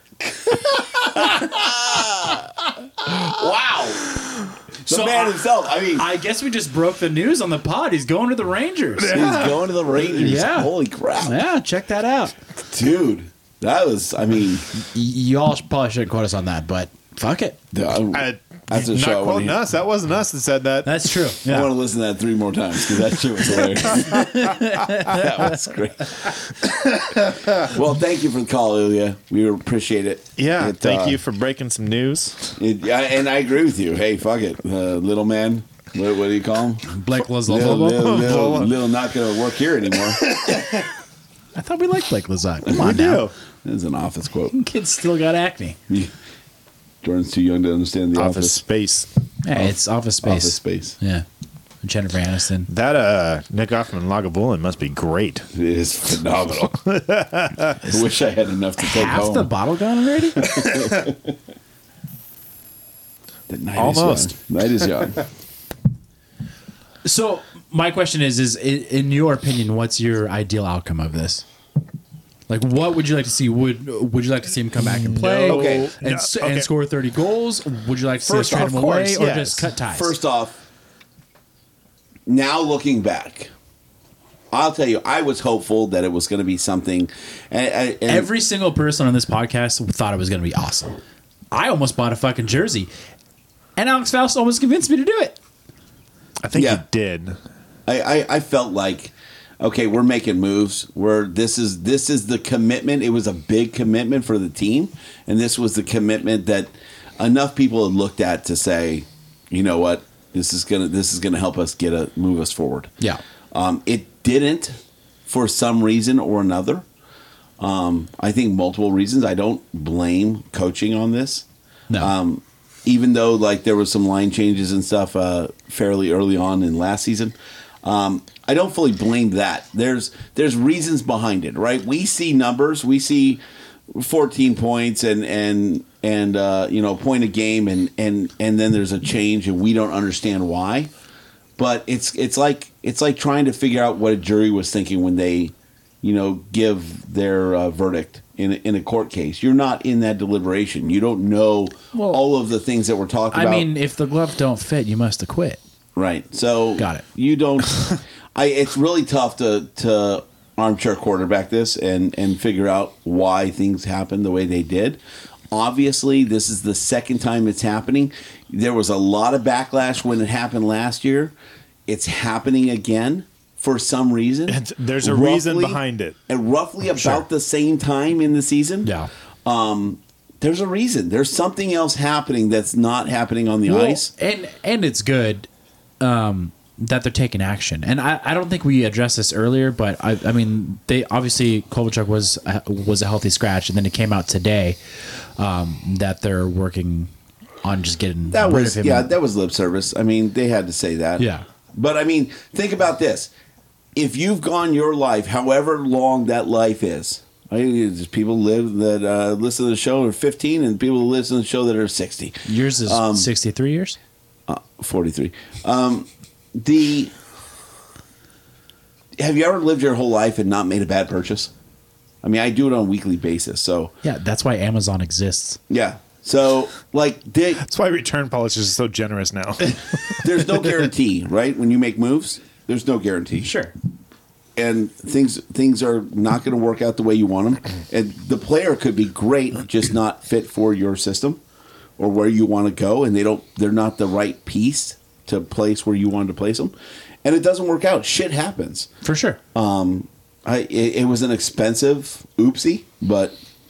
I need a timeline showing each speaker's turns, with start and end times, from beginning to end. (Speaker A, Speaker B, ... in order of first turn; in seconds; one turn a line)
Speaker A: 0.4-4.2
Speaker A: 4.9-6.1
Speaker B: 4.9-9.2
Speaker C: 9.0-9.6
Speaker A: 9.1-11.4
Speaker B: 10.2-12.3
Speaker A: 12.7-14.7
Speaker B: 14.8-17.6
Speaker A: 17.7-19.6
Speaker C: 18.1-21.1
Speaker B: 20.9-21.7
Speaker A: 21.5-31.2
Speaker B: 23.9-25.6
Speaker C: 30.4-32.6
Speaker A: 32.6-36.9
Speaker B: 36.9-38.3
Speaker A: 37.5-40.4
Speaker C: 37.9-38.8
Speaker C: 40.3-40.8
Speaker B: 41.5-43.2
Speaker C: 42.8-43.3
Speaker A: 43.6-44.5
Speaker B: 44.5-45.8
Speaker A: 47.0-48.6
Speaker C: 48.1-49.1
Speaker B: 49.4-51.2
Speaker A: 49.5-51.0
Speaker B: 51.8-52.7
Speaker C: 52.7-55.5
Speaker A: 55.5-56.8
Speaker C: 56.8-57.8
Speaker A: 57.8-59.5
Speaker B: 58.8-60.5
Speaker A: 60.4-61.4
Speaker A: 63.5-65.3
Speaker C: 63.8-64.4
Speaker B: 67.0-71.5
Speaker B: 72.5-80.1
Speaker C: 74.8-76.7
Speaker A: 75.4-75.9
Speaker A: 78.2-80.6
Speaker C: 78.9-79.6
Speaker A: 82.3-83.5
Speaker A: 84.5-88.3
Speaker B: 88.1-91.0
Speaker B: 91.5-92.9
Speaker B: 93.8-95.4
Speaker C: 96.4-97.4
Speaker A: 96.5-96.8
Speaker A: 97.9-112.9
Speaker A: 113.5-116.9
Speaker A: 117.6-121.5
Speaker A: 122.0-140.9
Speaker A: 141.6-153.7
Speaker B: 151.9-152.2
Speaker B: 153.3-155.6
Speaker A: 156.0-171.3
Speaker B: 156.8-157.0
Speaker A: 171.9-178.9
Speaker C: 174.5-176.2
Speaker B: 178.8-179.1
Speaker A: 179.4-184.1
Speaker B: 183.7-185.5
Speaker B: 186.0-194.8
Speaker B: 195.4-197.1
Speaker B: 197.6-199.1
Speaker A: 198.3-203.3
Speaker B: 201.2-201.4
Speaker A: 203.9-213.3
Speaker B: 212.5-214.0
Speaker A: 214.5-217.1
Speaker A: 219.2-221.5
Speaker A: 222.2-223.9
Speaker B: 224.0-225.6
Speaker A: 225.7-227.6
Speaker C: 227.6-230.3
Speaker A: 230.2-233.5
Speaker B: 233.4-233.7
Speaker A: 234.6-241.4
Speaker A: 242.0-248.9
Speaker B: 249.0-249.4
Speaker A: 249.6-253.4